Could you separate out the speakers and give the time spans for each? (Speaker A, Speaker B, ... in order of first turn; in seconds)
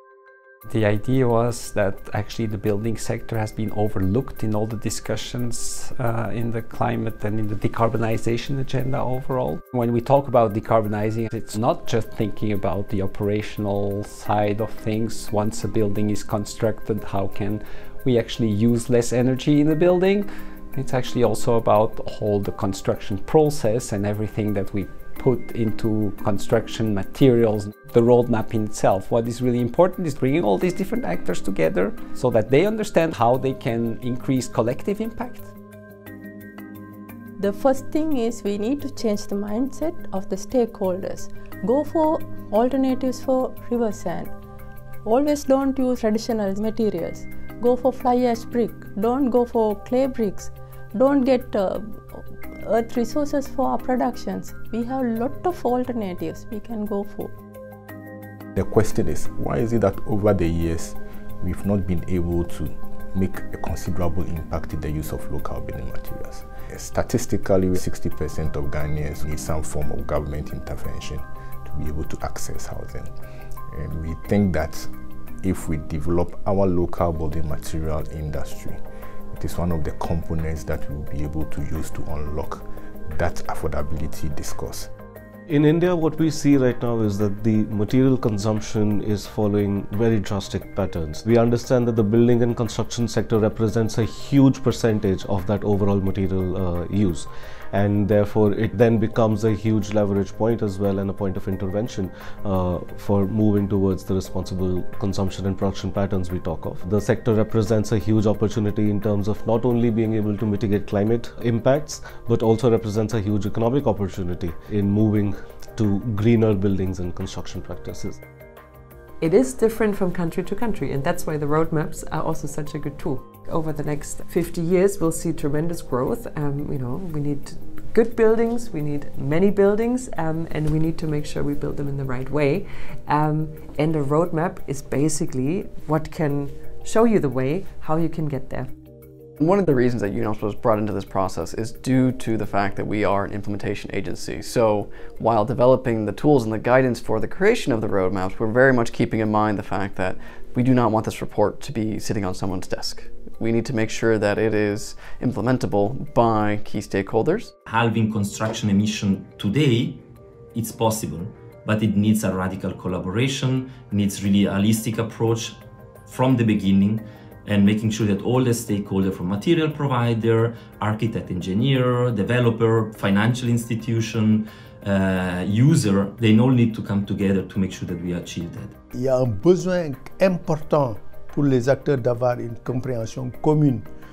Speaker A: 0.7-35.5
Speaker B: 37.4-44.3, 45.0-57.3
Speaker C: 58.5-73.1, 73.7-74.9, 75.4-78.8, 79.3-84.9
Speaker D: 85.5-118.2
Speaker E: 119.2-138.7
Speaker F: 139.4-157.5
Speaker G: 157.7-160.0, 160.5-178.7
Speaker H: 178.9-183.9